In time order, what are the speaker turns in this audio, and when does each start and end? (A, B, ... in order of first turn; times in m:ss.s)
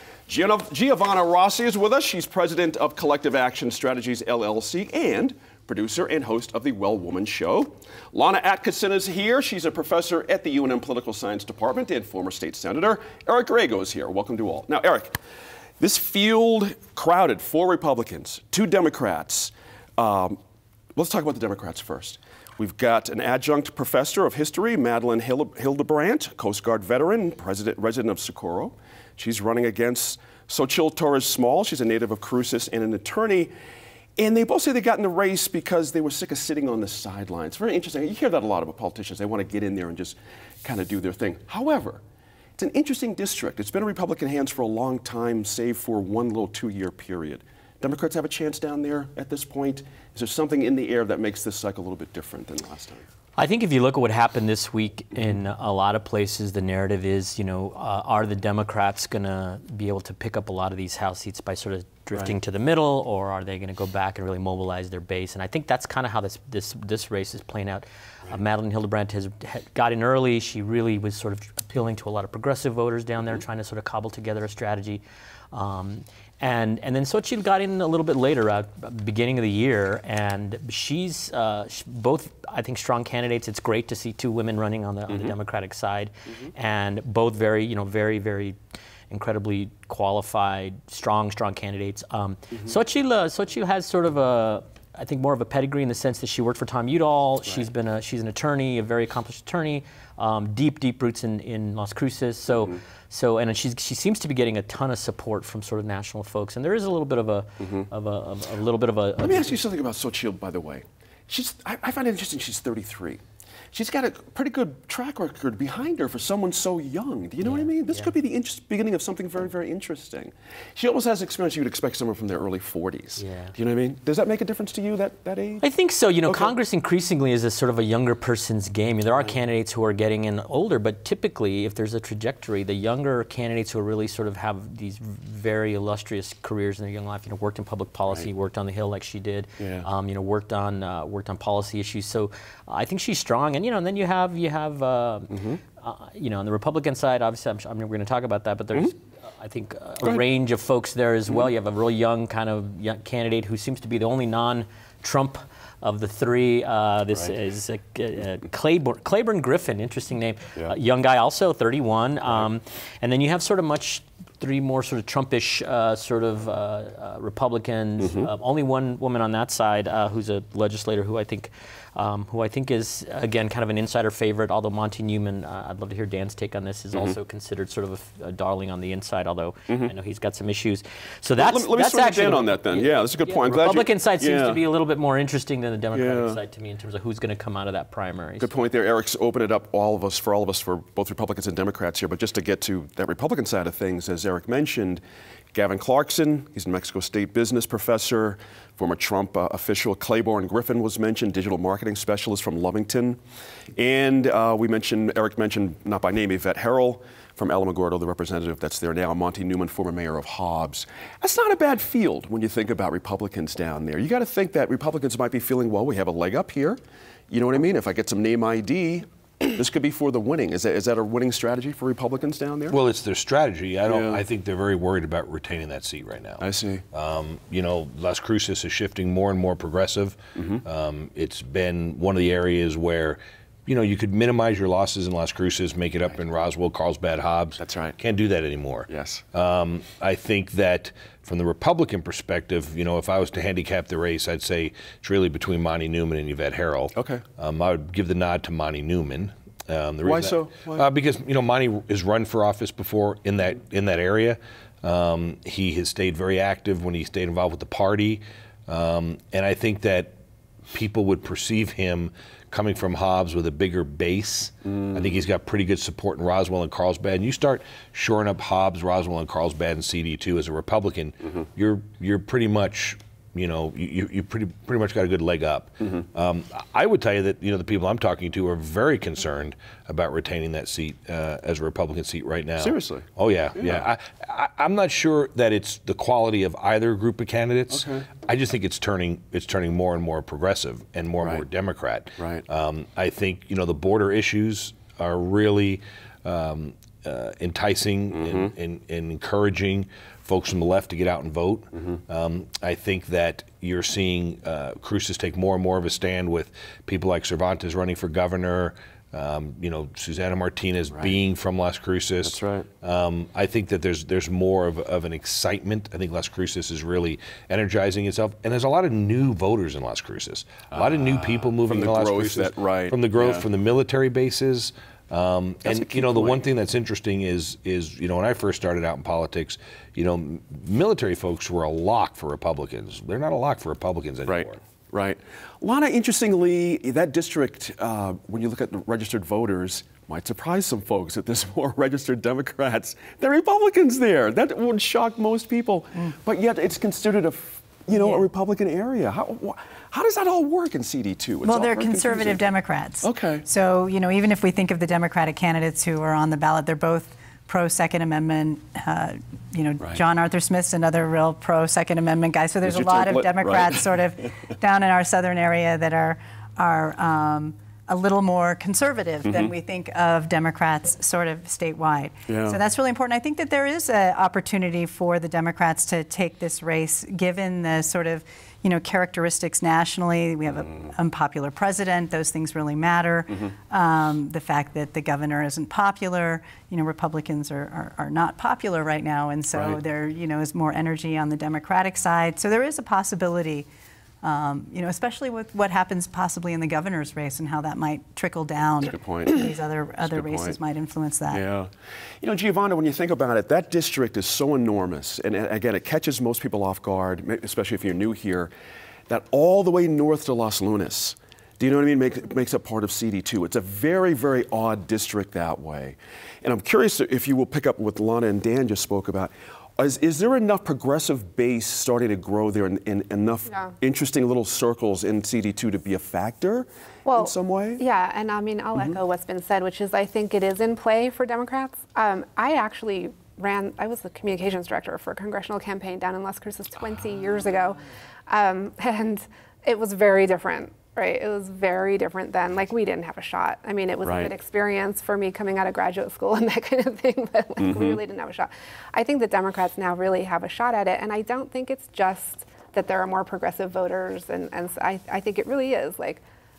0:00.3-0:15.2 A
0:15.8-0:20.4 A
0:21.0-0:33.5 A
0:34.2-0:42.0 A
0:42.6-0:53.0 A
0:53.4-1:28.6 B
1:25.1-1:25.3 A
1:29.1-1:49.5 B
1:49.2-2:05.6 A
1:57.4-1:58.1 B
2:03.2-2:03.5 B
2:05.6-3:08.5 B
2:06.2-2:06.5 A
2:19.6-2:19.8 A
2:25.3-2:25.6 A
2:48.0-2:48.3 A
3:01.4-3:04.6 A
3:05.9-3:06.4 A
3:08.4-3:15.0 A
3:15.5-3:23.2 A
3:23.8-3:42.8 A
3:42.7-4:20.1 C
3:43.8-3:44.2 A
3:46.4-3:46.8 A
3:50.4-3:50.6 A
3:57.6-3:58.0 A
3:58.9-3:59.2 A
4:06.9-4:07.2 A
4:10.0-4:10.9 A
4:20.7-5:34.6 C
4:42.6-4:43.9 A
4:47.7-4:48.1 A
4:52.2-4:52.4 A
4:58.1-4:58.5 A
5:12.2-5:12.7 A
5:20.7-5:23.4 A
5:25.6-5:26.4 A
5:34.2-5:52.4 A
5:48.0-5:48.2 D
5:51.4-6:33.6 D
5:53.0-5:53.4 A
6:02.6-6:04.3 A
6:09.2-6:09.5 A
6:12.3-6:12.6 A
6:34.2-6:41.4 D
6:38.9-6:39.4 A
6:40.0-6:40.6 A
6:41.3-6:41.7 A
6:42.2-6:48.5 A
6:49.1-7:07.8 A
7:03.5-7:03.7 E
7:07.0-7:36.2 E
7:24.0-7:24.3 A
7:27.6-7:28.0 A